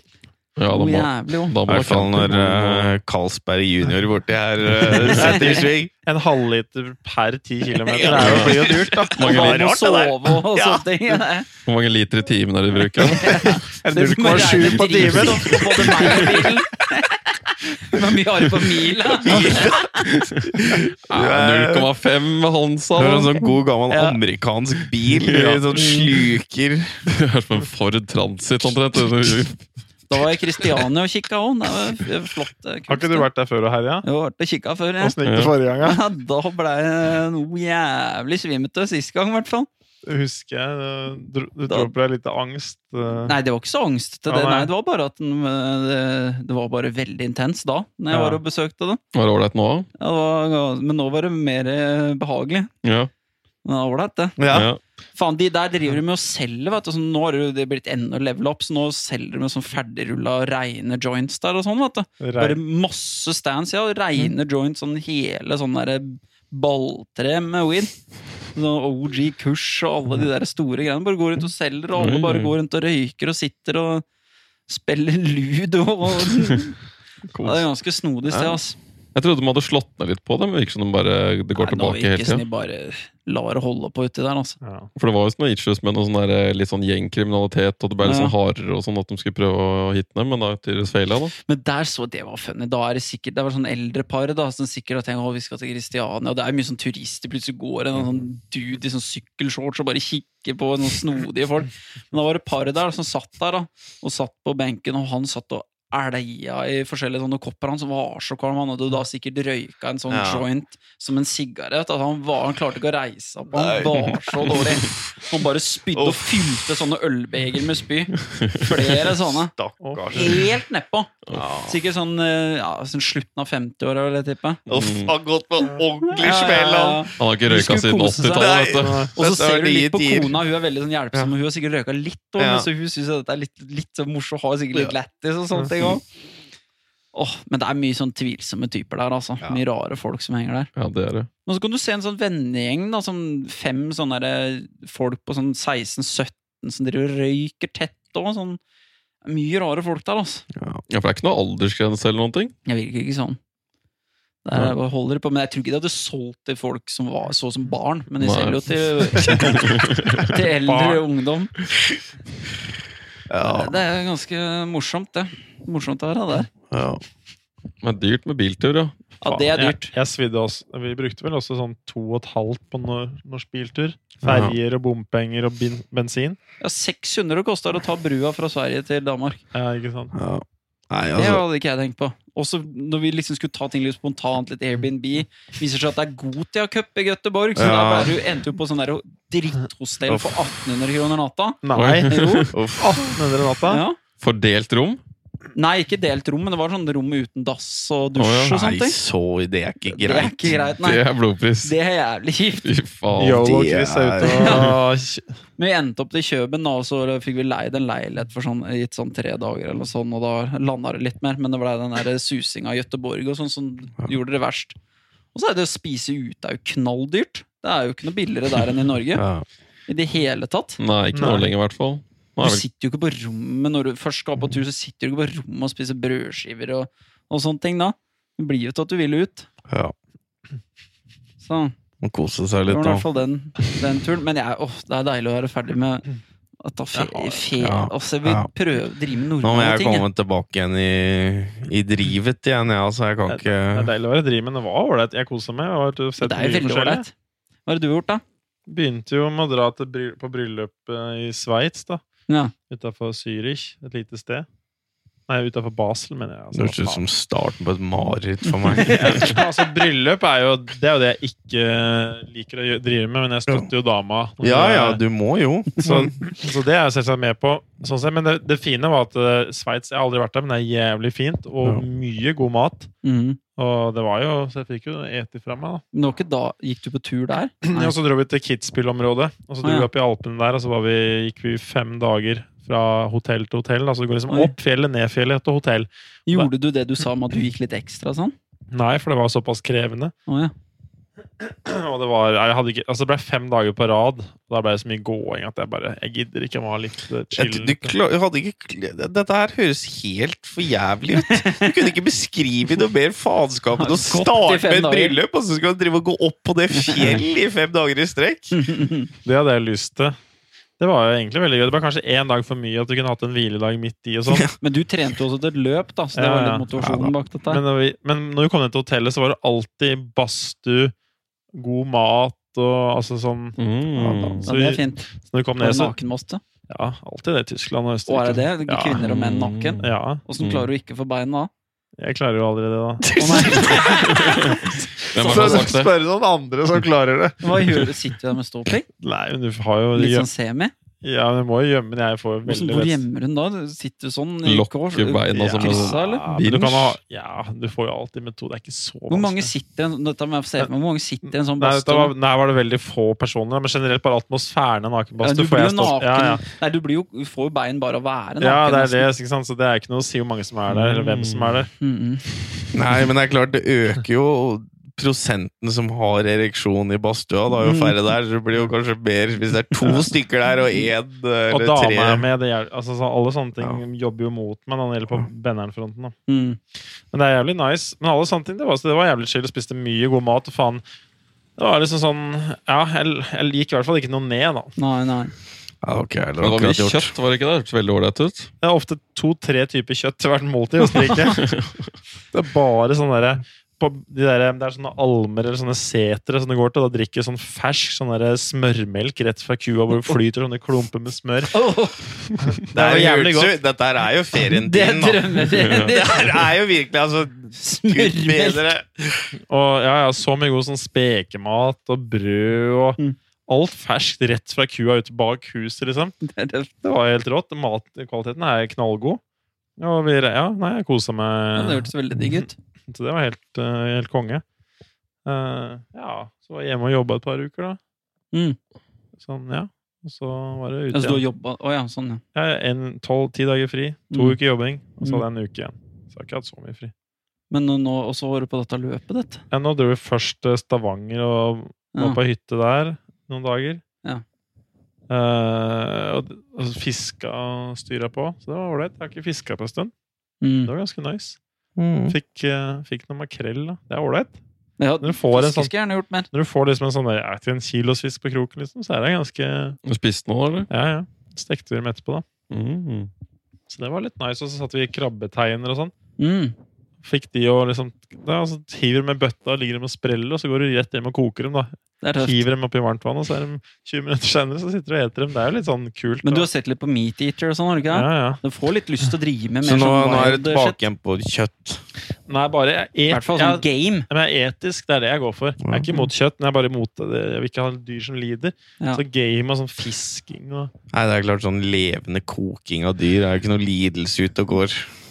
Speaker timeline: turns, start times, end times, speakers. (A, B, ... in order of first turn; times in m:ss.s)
0:00.6-0:03.0 A
0:00.7-0:01.6 B
0:01.7-0:05.9 C
0:04.8-0:05.2 A
0:05.2-0:05.7 B
0:05.2-0:09.3 D
0:07.8-0:10.8 C
0:08.0-0:09.6 A
0:09.2-0:11.5 B
0:11.6-0:13.6 A
0:13.0-0:20.0 B
0:13.5-0:16.5 D
0:15.0-0:15.3 A
0:19.2-0:19.8 C
0:20.0-0:23.4 A
0:21.1-0:21.9 C
0:23.0-0:27.0 C
0:23.9-0:24.2 B
0:25.2-0:25.8 A
0:25.7-0:26.1 B
0:27.1-0:29.6 A
0:30.1-0:33.3 B
0:32.9-0:34.0 D
0:34.0-0:35.2 B
0:35.0-0:36.0 D
0:35.2-0:35.5 A
0:35.8-0:39.7 B
0:40.0-0:43.4 D
0:41.7-0:41.9 B
0:43.2-0:49.0 B
0:44.3-0:44.7 D
0:48.1-0:48.4 D
0:49.1-0:49.9 A
0:50.0-0:52.7 B
0:52.8-0:53.1 A
0:53.6-0:54.4 B
0:54.4-0:54.7 C
0:54.5-0:54.8 A
0:55.1-1:07.9 B
1:02.2-1:02.6 D
1:08.5-1:14.0 B
1:12.0-1:12.5 A
1:14.7-1:16.8 B
1:17.3-1:17.6 A
1:17.4-1:18.8 B
1:19.1-1:22.4 A
1:21.6-1:24.6 B
1:24.6-1:24.9 D
1:25.0-1:31.3 A
1:28.0-1:28.3 B
1:31.4-1:59.5 B
1:50.1-1:50.4 C
1:53.5-1:54.8 C
1:54.0-1:54.6 A
1:55.9-1:56.6 C
1:58.2-1:58.8 A
1:59.2-2:00.4 C
1:59.8-2:00.3 D
2:00.1-2:04.6 B
2:01.3-2:01.8 C
2:04.7-2:07.1 C
2:04.7-2:05.1 A
2:06.1-2:16.0 B
2:07.2-2:09.1 A
2:08.3-2:10.4 C
2:08.8-2:09.1 D
2:12.4-2:12.7 C
2:17.1-2:20.7 B
2:20.8-2:21.3 A
2:21.4-2:28.6 B
2:29.2-2:30.4 B
2:30.5-2:30.8 C
2:30.9-2:32.5 A
2:32.6-2:33.4 B
2:34.4-2:41.5 B
2:38.2-2:40.4 A
2:40.6-2:41.0 D
2:43.3-2:43.8 C
2:43.4-2:46.5 B
2:46.7-2:47.0 C
2:47.8-2:49.0 A
2:49.2-2:49.9 B
2:49.2-2:56.4 D
2:54.3-2:54.5 A
2:56.6-2:59.4 B
2:59.5-3:00.1 D
3:00.1-3:01.4 C
3:01.2-3:12.5 B
3:07.6-3:08.1 C
3:10.1-3:10.4 C
3:11.6-3:12.2 D
3:11.7-3:12.5 A
3:12.5-3:13.2 C
3:12.8-3:13.8 D
3:13.6-3:14.0 B
3:14.2-3:15.0 A
3:15.5-3:19.0 B
3:18.2-3:18.6 A
3:18.5-3:20.6 C
3:19.8-3:21.0 B
3:20.8-3:21.7 A
3:21.6-3:22.7 B
3:22.6-3:23.5 A
3:23.2-3:25.3 D
3:23.4-3:24.7 C
3:24.2-3:24.7 B
3:25.6-3:34.8 B
3:35.3-3:39.2 B
3:39.2-3:39.4 C
3:39.9-3:40.8 B
3:40.8-3:42.6 A
3:41.1-3:41.5 D
3:42.4-3:49.5 B
3:49.7-3:49.9 C
3:51.4-3:51.7 B
3:52.0-3:53.0 C
3:52.7-3:56.0 B
3:56.6-4:00.0 B
3:57.0-3:57.4 D
3:57.6-3:58.5 C
3:59.4-4:03.9 C
4:03.3-4:07.0 D
4:06.2-4:07.1 B
4:07.6-4:08.2 B
4:08.7-4:12.0 D
4:12.7-4:14.4 D
4:15.3-4:17.0 D
4:16.5-4:19.4 C
4:18.6-4:19.3 B
4:18.9-4:25.0 D
4:24.4-4:26.1 C
4:25.8-4:32.9 D
4:33.0-4:33.4 B
4:33.6-4:35.8 D
4:35.9-4:37.9 B
4:37.6-4:46.5 D
4:39.6-4:39.9 B
4:46.3-4:48.3 B
4:48.7-4:50.1 D
4:50.3-4:50.5 B
4:51.4-4:57.9 D
4:57.3-5:08.6 C
5:01.2-5:01.9 B
5:03.8-5:05.2 B
5:06.7-5:07.2 B
5:08.5-5:09.1 B
5:09.2-5:10.2 D
5:10.8-5:14.5 D
5:14.3-5:14.5 C
5:14.6-5:17.6 B
5:16.1-5:16.7 D
5:16.8-5:17.1 C
5:17.5-5:20.9 D
5:21.5-5:26.0 D
5:23.6-5:24.5 A
5:24.0-5:24.4 C
5:24.4-5:25.1 B
5:25.6-5:26.4 B
5:26.7-5:29.0 D
5:28.1-5:31.5 B
5:29.0-5:30.7 A
5:29.8-5:30.2 D
5:32.0-5:33.8 D
5:33.0-5:34.2 C
5:33.2-5:35.7 B
5:34.1-5:35.9 A
5:35.2-5:37.9 D
5:37.4-5:38.9 B
5:39.0-5:40.3 D
5:39.9-5:40.7 B
5:41.0-5:43.0 D
5:42.4-5:46.2 B
5:44.4-5:47.0 A
5:45.3-5:49.5 D
5:49.1-5:52.1 B
5:51.6-5:56.4 D
5:55.2-5:59.1 B
5:58.4-6:01.7 D
6:00.7-6:01.6 A
6:01.8-6:02.2 B
6:02.7-6:12.2 C
6:07.6-6:08.0 B
6:11.5-6:16.1 D
6:16.3-6:16.6 B
6:17.1-6:20.8 D
6:21.6-6:24.7 D
6:24.8-6:25.3 B
6:25.8-6:27.1 C
6:26.4-6:28.5 A
6:28.6-6:31.4 D
6:31.2-6:31.9 A
6:32.3-6:41.5 D
6:41.5-6:42.0 B
6:42.4-6:43.6 D
6:42.7-6:49.3 C
6:44.6-6:46.5 B
6:45.5-6:45.9 A
6:47.6-6:48.7 B
6:49.5-6:56.2 D
6:56.2-6:56.7 B
6:56.8-6:59.2 D
6:59.8-7:04.4 D
7:01.5-7:02.5 B
7:05.2-7:07.8 D
7:09.2-7:11.2 D
7:10.9-7:12.2 B
7:12.3-7:16.9 D
7:14.1-7:14.4 B
7:17.5-7:19.4 B
7:19.5-7:23.8 D
7:21.9-7:22.2 B
7:25.1-7:29.9 D
7:30.4-7:30.7 B
7:30.6-7:31.4 D
7:31.8-7:32.2 C
7:32.1-7:34.4 D
7:34.8-7:36.3 B
7:35.0-7:35.7 D
7:36.3-7:39.8 D
7:39.8-7:40.7 A
7:40.7-7:42.2 D
7:42.5-7:43.1 A
7:43.7-7:45.9 D
7:46.2-7:46.5 B
7:47.0-7:56.5 D
7:52.0-7:52.4 B
7:56.2-8:00.8 B
7:57.9-7:58.4 D
7:59.6-8:01.8 C
8:02.3-8:10.7 D
8:03.1-8:04.1 B
8:05.6-8:05.9 C
8:10.9-8:14.9 C